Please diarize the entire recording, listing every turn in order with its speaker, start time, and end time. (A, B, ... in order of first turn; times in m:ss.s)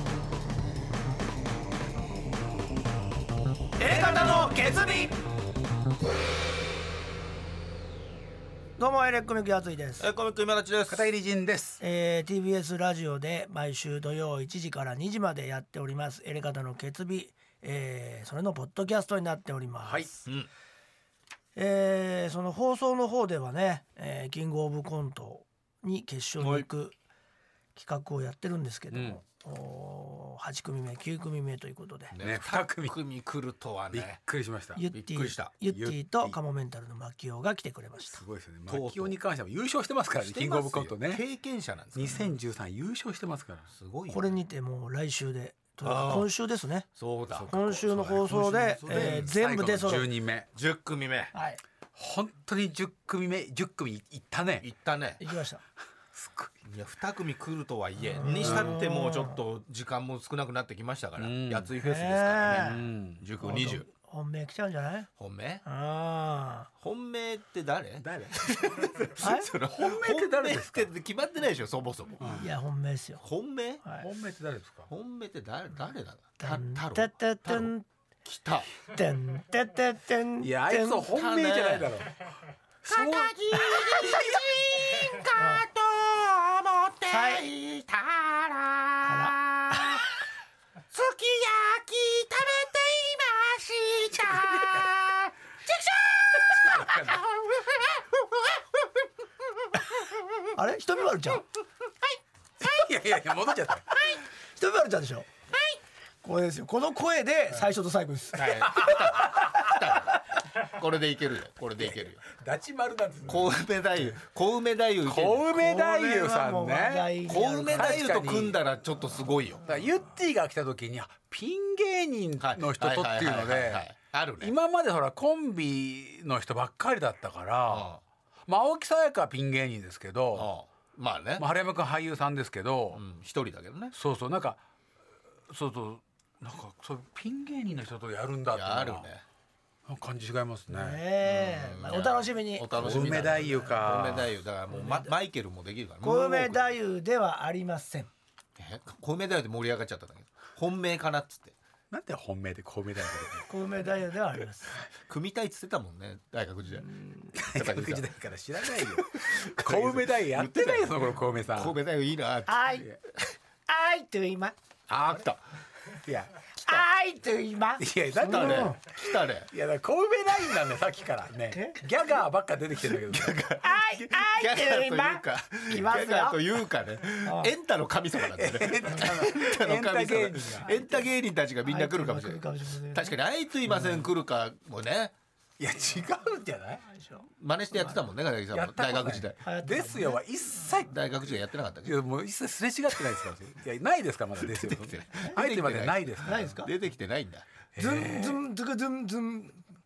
0:03.8-0:05.2 A
0:08.8-0:10.1 A
0:10.0-0:11.0 B
0:10.9-0:11.8 C
0:11.8-0:20.1 A
0:19.8-0:20.1 C
0:21.6-0:27.0 A
0:26.4-0:26.7 B
0:27.8-0:32.1 A
0:28.9-0:29.2 C
0:32.1-0:34.2 B
0:32.2-0:33.0 C
0:33.9-0:34.9 C
0:34.8-0:38.2 A
0:34.9-0:35.5 B
0:35.6-0:36.4 C
0:38.1-0:41.2 C
0:38.7-0:39.2 B
0:40.2-0:42.3 B
0:41.9-0:43.7 C
0:43.7-0:44.4 B
0:44.1-0:46.9 A
0:45.8-0:46.3 B
0:47.0-0:47.5 B
0:47.3-0:50.5 C
0:47.5-0:50.1 A
0:48.4-0:49.3 B
0:50.5-0:51.3 B
0:51.3-0:51.6 A
0:52.0-0:54.7 C
0:54.6-0:55.2 B
0:55.2-0:55.6 A
0:56.2-0:56.5 C
0:56.6-1:03.8 B
0:58.1-0:59.4 A
0:58.4-0:58.7 C
1:01.2-1:01.7 C
1:01.8-1:02.8 A
1:02.5-1:03.2 C
1:03.4-1:05.1 A
1:05.2-1:05.6 B
1:05.6-1:06.7 A
1:06.8-1:12.4 B
1:08.0-1:08.5 C
1:09.2-1:09.5 A
1:09.7-1:10.9 C
1:12.2-1:13.2 A
1:13.2-1:13.8 B
1:14.0-1:14.9 C
1:14.9-1:17.7 B
1:16.4-1:17.8 A
1:18.2-1:18.7 B
1:18.9-1:21.1 A
1:20.4-1:22.3 C
1:21.1-1:21.9 B
1:22.8-1:23.4 C
1:22.9-1:30.1 B
1:25.3-1:25.7 A
1:27.1-1:27.4 A
1:29.0-1:30.0 A
1:30.9-1:38.8 B
1:34.1-1:34.9 C
1:36.6-1:37.2 C
1:40.5-1:41.4 A
1:42.6-1:43.8 C
1:44.6-1:45.3 A
1:46.2-1:48.9 A
1:48.4-1:49.6 C
1:48.4-1:52.2 B
1:51.8-1:54.2 C
1:53.2-1:55.6 B
1:55.0-1:57.1 C
1:55.5-1:58.1 A
1:57.3-1:59.7 B
1:57.7-1:58.6 C
1:59.7-2:03.8 C
2:02.4-2:04.6 B
2:04.4-2:07.9 C
2:07.7-2:08.0 B
2:08.5-2:10.5 C
2:10.3-2:11.4 B
2:11.4-2:13.0 C
2:12.9-2:13.9 B
2:13.9-2:14.6 C
2:15.5-2:19.1 C
2:18.5-2:19.2 B
2:19.9-2:21.0 C
2:20.7-2:23.9 A
2:21.2-2:26.7 B
2:22.7-2:24.3 C
2:24.7-2:25.1 A
2:26.0-2:28.1 A
2:28.6-2:31.5 B
2:31.9-2:33.5 C
2:33.5-2:34.8 A
2:35.1-2:38.1 B
2:37.3-2:41.8 C
2:38.6-2:43.2 B
2:42.5-2:42.9 A
2:43.7-2:44.5 A
2:44.9-2:45.4 B
2:46.0-2:46.3 C
2:46.6-2:48.8 A
2:47.8-2:53.5 C
2:48.2-2:49.5 B
2:51.5-2:51.8 A
2:53.1-3:05.1 B
2:53.6-2:56.4 A
2:57.2-2:57.5 A
2:58.3-3:00.8 C
3:01.6-3:03.2 A
3:03.7-3:04.0 C
3:05.6-3:06.9 C
3:06.9-3:07.3 A
3:07.4-3:09.4 B
3:08.5-3:10.9 C
3:09.4-3:10.2 A
3:10.7-3:12.0 B
3:11.8-3:16.5 C
3:14.4-3:17.5 B
3:16.2-3:16.7 A
3:17.8-3:18.4 C
3:17.8-3:19.6 A